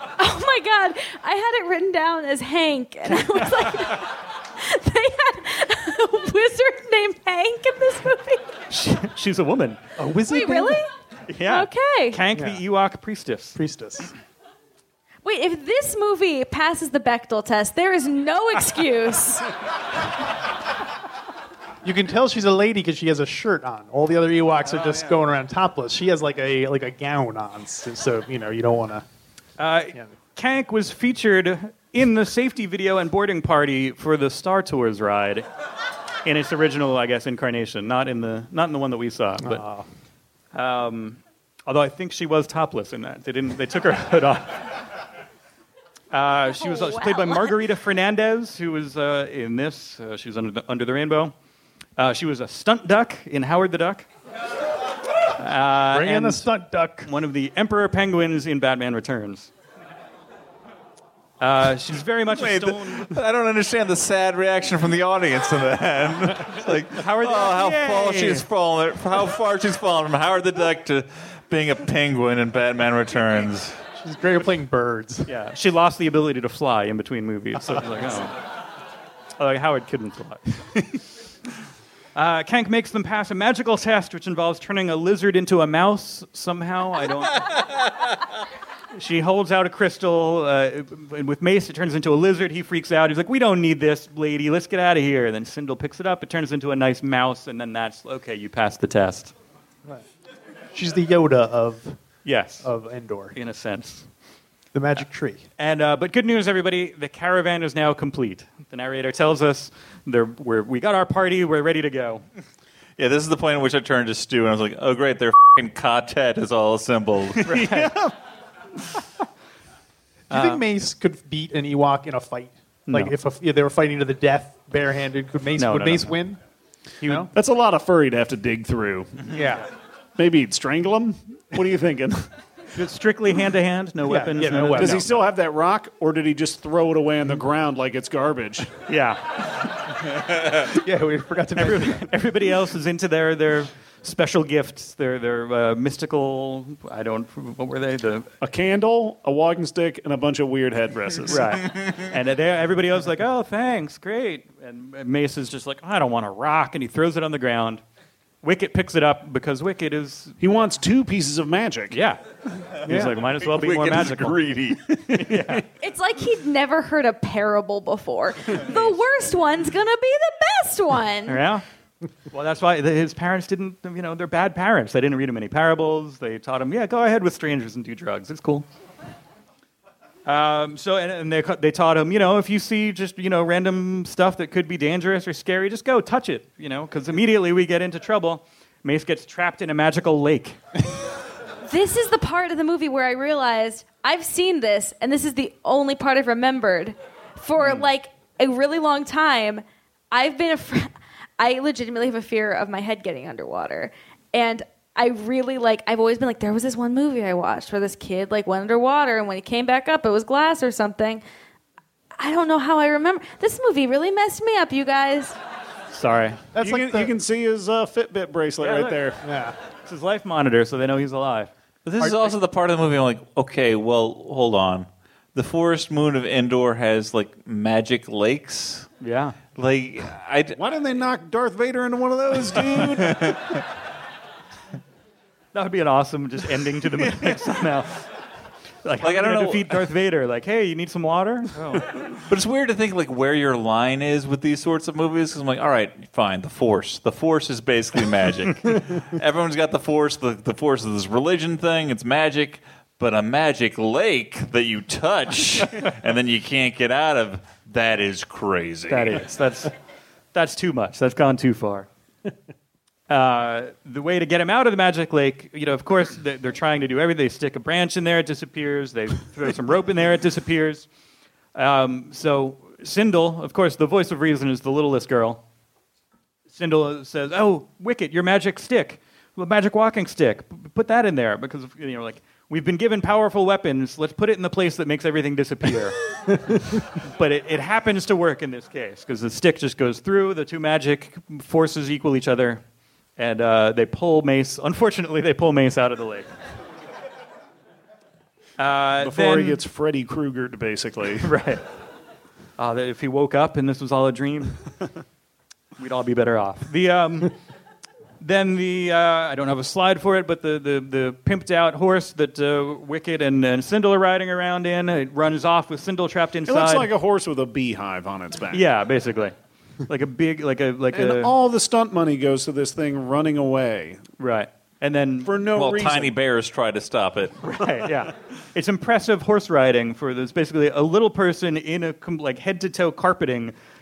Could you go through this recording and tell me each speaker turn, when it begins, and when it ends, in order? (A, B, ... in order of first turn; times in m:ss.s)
0:00.2-0:08.6 A
0:08.7-0:09.8 B
0:10.0-0:10.8 C
0:10.3-0:10.9 A
0:11.3-0:13.6 B
0:11.4-0:12.2 A
0:12.3-0:12.6 C
0:13.5-0:14.1 C
0:15.2-0:19.5 A
0:21.8-0:29.0 C
0:29.6-0:35.4 B
0:36.2-0:39.6 B
0:39.4-0:39.8 C
0:40.5-0:44.8 B
0:46.1-0:51.3 B
0:46.6-0:47.5 A
0:52.0-0:54.1 B
0:55.4-0:56.5 B
0:55.9-0:57.1 C
0:57.0-0:59.5 B
1:01.4-1:03.2 B
1:02.3-1:13.8 D
1:06.9-1:08.4 B
1:14.0-1:15.3 C
1:15.3-1:18.4 B
1:19.4-1:21.0 B
1:22.1-1:27.5 B
1:28.9-1:39.3 B
1:40.7-1:42.0 C
1:42.2-1:42.7 B
1:42.6-1:43.3 C
1:43.3-1:44.1 B
1:44.7-1:45.4 C
1:45.6-1:52.2 B
1:53.0-1:57.8 D
1:57.4-1:58.0 B
2:00.3-2:06.4 C
2:00.3-2:00.6 B
2:02.9-2:03.1 B
2:05.6-2:06.2 B
2:07.0-2:07.3 B
2:07.3-2:09.2 E
2:09.3-2:09.6 C
2:10.2-2:12.3 E
2:12.7-2:15.1 B
2:14.0-2:15.3 C
2:14.7-2:18.7 E
2:18.9-2:19.4 B
2:20.3-2:22.1 C
2:21.6-2:28.3 B
2:28.4-2:31.6 E
2:31.3-2:37.8 B
2:38.4-2:40.4 B
2:40.4-2:42.0 E
2:41.9-2:42.2 B
2:42.7-2:44.4 B
2:42.9-2:43.2 C
2:43.7-2:45.2 E
2:45.1-2:45.6 B
2:45.8-2:51.4 A
2:51.3-2:51.6 B
2:52.3-2:58.7 B
3:00.2-3:10.6 B
3:11.6-3:31.2 A
3:17.6-3:17.8 B
3:32.2-3:35.4 A
3:35.9-3:36.4 B
3:36.5-3:37.1 C
3:36.6-3:39.2 E
3:38.6-3:39.1 B
3:39.2-3:39.6 C
3:39.8-3:41.5 B
3:41.8-3:48.9 D
3:42.0-3:42.3 C
3:49.0-3:49.4 B
3:49.5-3:50.6 D
3:50.6-3:53.6 E
3:55.5-3:58.0 B
3:58.8-4:01.9 B
3:59.0-3:59.8 D
4:02.2-4:19.2 D
4:18.9-4:19.7 B
4:20.3-4:21.9 B
4:23.1-4:30.9 B
4:31.5-4:35.4 B
4:36.5-4:46.0 B
4:47.0-4:52.6 B
4:53.2-4:56.3 B
4:58.6-4:59.6 B
4:59.0-5:01.3 E
5:01.2-5:01.6 B
5:02.6-5:04.6 B
5:05.8-5:07.3 B
5:08.2-5:16.9 B
5:16.4-5:18.6 E
5:18.5-5:19.3 B
5:19.9-5:21.3 B
5:20.9-5:24.0 E
5:24.2-5:25.3 B
5:25.2-5:26.1 E
5:25.5-5:27.5 D
5:27.4-5:33.5 B